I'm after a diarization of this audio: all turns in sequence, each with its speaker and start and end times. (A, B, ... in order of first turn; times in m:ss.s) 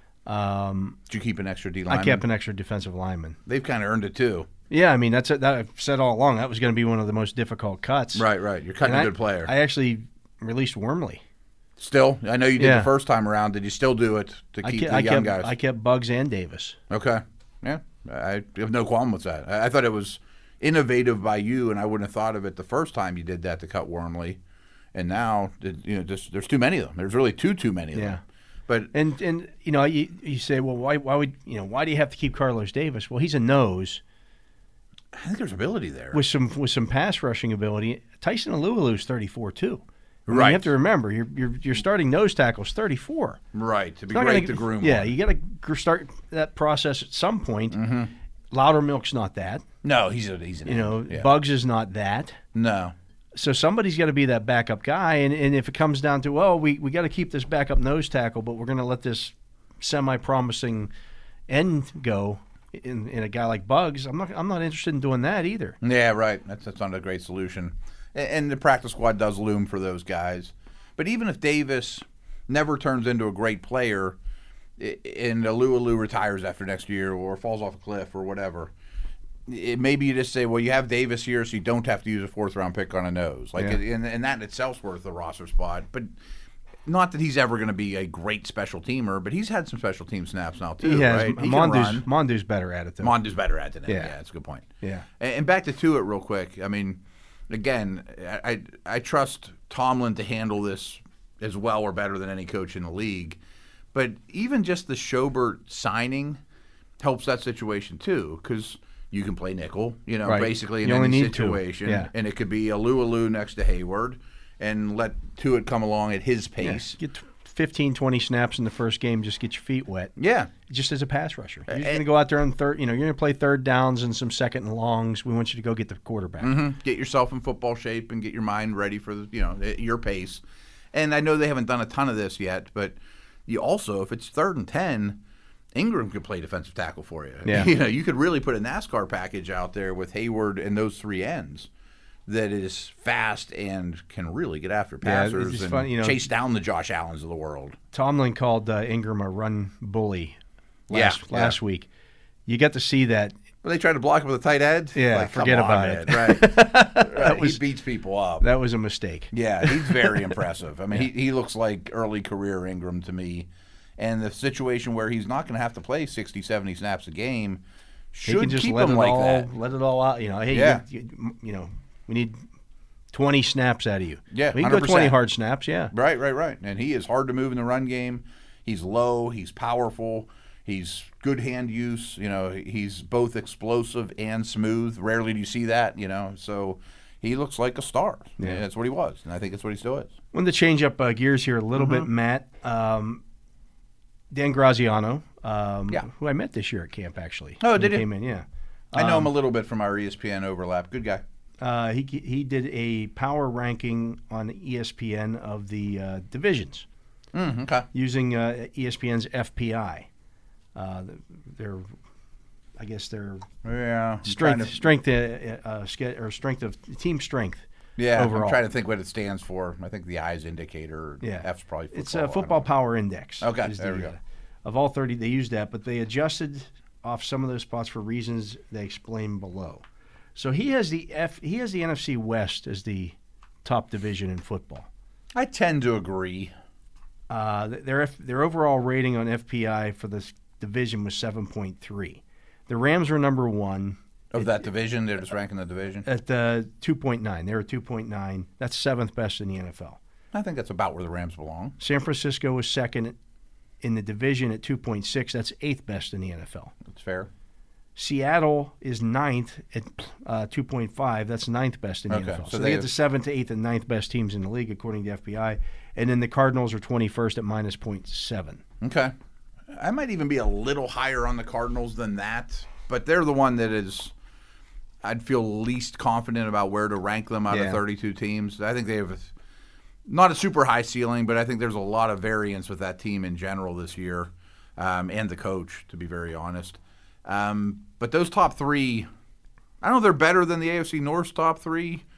0:00.2-0:01.0 A
0:01.1-0:02.2 B
0:01.9-0:03.4 A
0:03.4-0:04.5 B
0:04.7-0:08.2 A
0:08.1-0:09.5 B
0:08.8-0:11.2 A
0:11.8-0:15.5 B
0:12.6-0:12.9 A
0:14.6-0:16.8 A
0:16.9-0:24.4 B
0:24.9-0:28.9 B
0:27.9-0:28.2 A
0:28.9-0:34.0 A
0:35.1-0:36.2 B
0:36.1-0:43.4 A
0:40.3-0:40.7 B
0:43.5-0:45.1 B
0:44.1-0:47.8 A
0:47.7-0:48.1 B
0:48.5-0:49.6 A
0:49.8-0:51.3 B
0:50.6-0:52.4 A
0:52.5-0:52.9 B
0:53.3-1:00.9 A
1:01.5-1:05.8 A
1:05.8-1:14.2 B
1:14.8-1:18.7 B
1:19.5-1:26.1 B
1:26.8-1:32.1 B
1:30.8-1:33.2 A
1:33.0-1:34.7 B
1:33.9-1:34.1 A
1:35.2-1:43.4 B
1:43.9-1:46.4 B
1:47.0-1:57.0 B
1:50.2-1:52.1 A
1:56.6-2:00.1 A
2:00.2-2:00.5 B
2:00.7-2:06.5 A
2:01.7-2:02.0 B
2:06.4-2:10.4 B
2:10.9-2:15.2 B
2:15.7-2:21.7 B
2:17.4-2:17.7 A
2:22.3-2:27.8 B
2:25.0-2:26.2 A
2:27.9-2:30.4 A
2:30.9-2:31.9 A
2:30.9-2:31.6 B
2:32.5-2:33.3 A
2:33.6-2:38.4 B
2:34.9-2:37.6 A
2:38.4-2:40.4 A
2:39.3-2:47.6 B
2:48.1-2:49.5 B
2:48.2-2:52.4 A
2:50.5-2:50.8 B
2:53.1-2:55.9 A
2:54.3-2:55.2 B
2:55.9-3:10.1 B
3:10.3-3:13.2 A
3:11.8-3:12.1 B
3:14.3-3:19.3 A
3:17.6-3:18.1 B
3:18.9-3:21.2 B
3:21.6-3:26.8 A
3:27.3-3:27.9 B
3:27.9-3:30.1 A
3:30.8-3:31.9 A
3:32.8-3:33.5 A
3:33.6-3:34.9 B
3:34.2-3:38.6 A
3:38.0-3:42.7 B
3:41.2-3:49.8 A
3:43.4-3:44.1 B
3:50.4-3:54.9 A
3:55.3-3:56.5 B
3:57.3-4:04.0 A
4:04.3-4:06.1 B
4:06.0-4:10.0 A
4:10.3-4:11.8 B
4:11.8-4:13.1 A
4:13.8-4:16.7 A
4:16.8-4:17.3 B
4:18.0-4:28.6 A
4:22.1-4:22.9 B
4:28.8-4:29.1 B
4:29.7-4:34.1 B
4:35.0-4:39.3 B
4:37.5-4:37.8 A
4:40.1-4:49.1 B
4:49.8-4:52.0 B